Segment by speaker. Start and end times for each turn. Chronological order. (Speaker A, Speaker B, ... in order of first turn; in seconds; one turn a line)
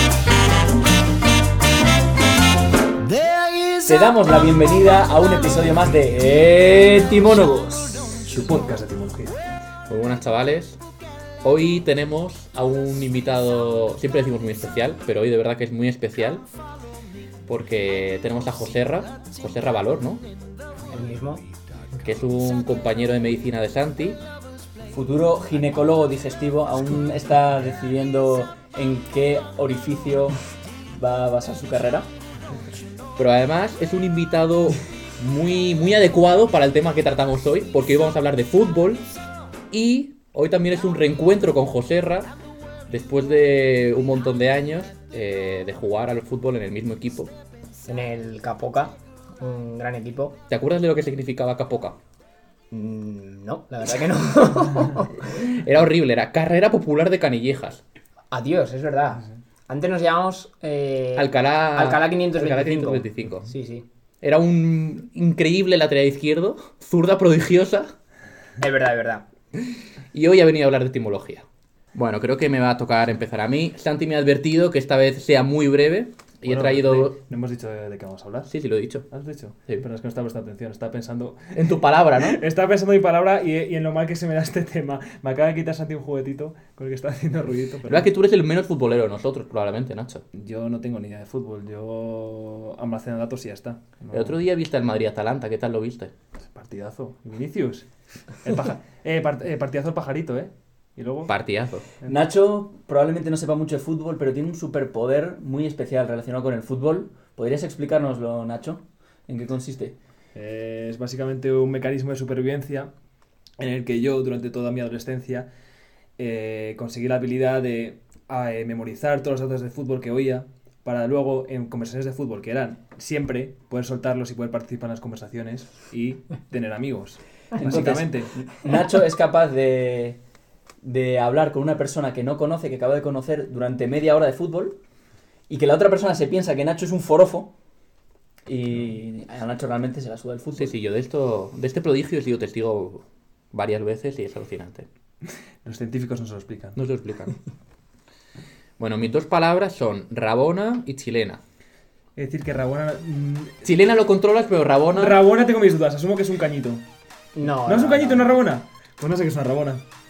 Speaker A: 3.8-8.2
Speaker B: 8.3-9.4
Speaker C: 9.9-10.8
Speaker C: 11.4-16.4
Speaker C: 17.5-20.2
Speaker D: 20.9-21.4
Speaker C: 22.0-24.2
Speaker A: 24.9-30.4
Speaker A: 30.9-32.1
Speaker C: 33.2-39.1
Speaker C: 39.7-42.3
Speaker C: 42.9-47.3
Speaker D: 47.8-50.4
Speaker C: 50.5-52.0
Speaker D: 52.7-55.3
Speaker C: 55.2-57.8
Speaker D: 58.3-63.9
Speaker C: 61.2-63.5
Speaker C: 64.2-67.9
Speaker D: 68.6-69.2
Speaker C: 70.1-77.2
Speaker B: 76.4-78.5
Speaker C: 78.5-79.1
Speaker B: 79.1-81.5
Speaker C: 81.5-82.4
Speaker B: 82.2-88.1
Speaker C: 87.9-90.2
Speaker B: 90.3-94.4
Speaker C: 94.1-96.1
Speaker B: 96.4-101.3
Speaker C: 101.3-101.8
Speaker A: 102.1-110.0
Speaker B: 110.3-112.9
Speaker B: 113.6-115.5
Speaker B: 116.2-128.3
Speaker A: 127.6-130.2
Speaker A: 130.8-134.8
Speaker A: 135.5-137.5
Speaker A: 138.4-140.8
Speaker C: 140.6-144.9
Speaker B: 145.6-146.8
Speaker C: 146.8-147.4
Speaker C: 148.8-151.4
Speaker B: 152.2-153.6
Speaker C: 153.6-155.2
Speaker B: 155.0-156.8
Speaker D: 157.4-158.4
Speaker B: 157.7-159.8